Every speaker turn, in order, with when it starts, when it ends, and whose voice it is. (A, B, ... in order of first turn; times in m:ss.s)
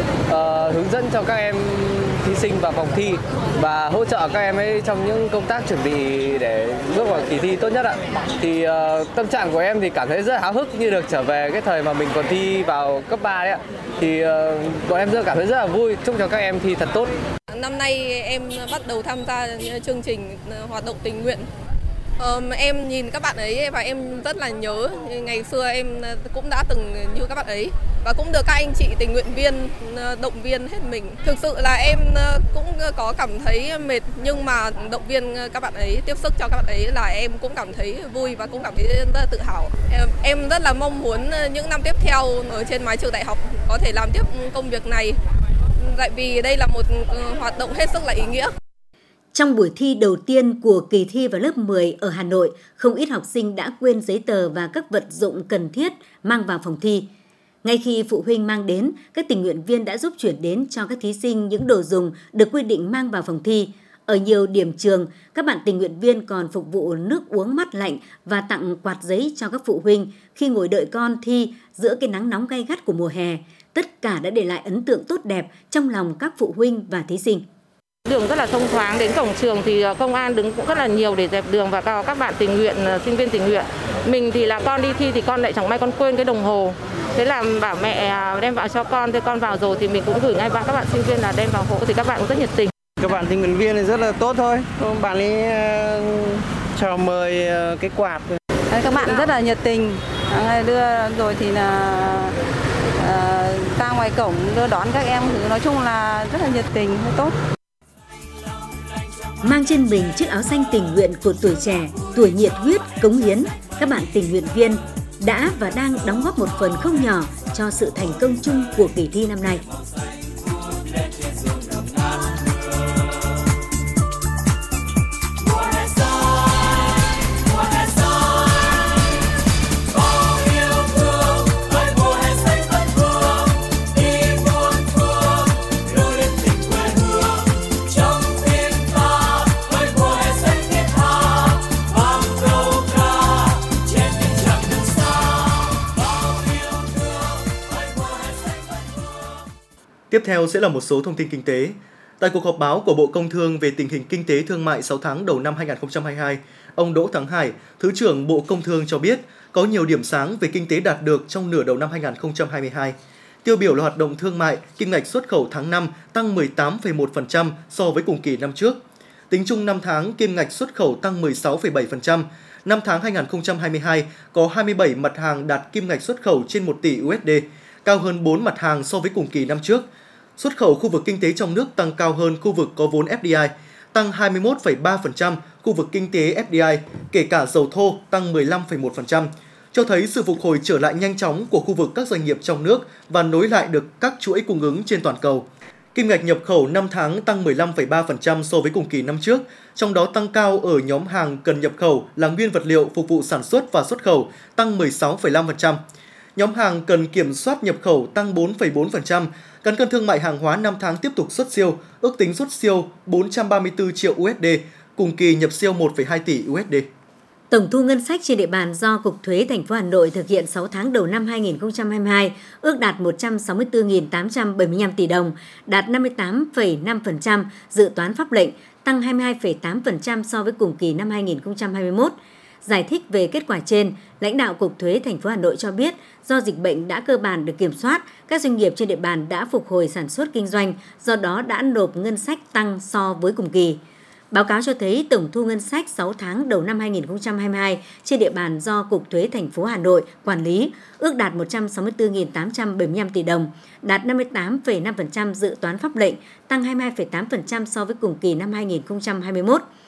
0:00.3-0:17.1 A
0:17.5-0:21.5 B
0:22.2-0:45.2 B
0:45.8-0:48.5 B
0:49.3-0:57.1 C
0:57.6-1:17.4 C
1:18.0-1:32.7 D
1:33.2-1:34.6 E
1:34.7-1:35.2 F
1:36.8-1:37.6 E
1:38.0-1:42.3 F
1:43.0-1:47.3 F
1:49.4-1:59.6 C
2:30.1-3:25.8 G
3:26.4-3:36.9 G
3:37.5-4:03.8 C
4:04.3-4:19.6 C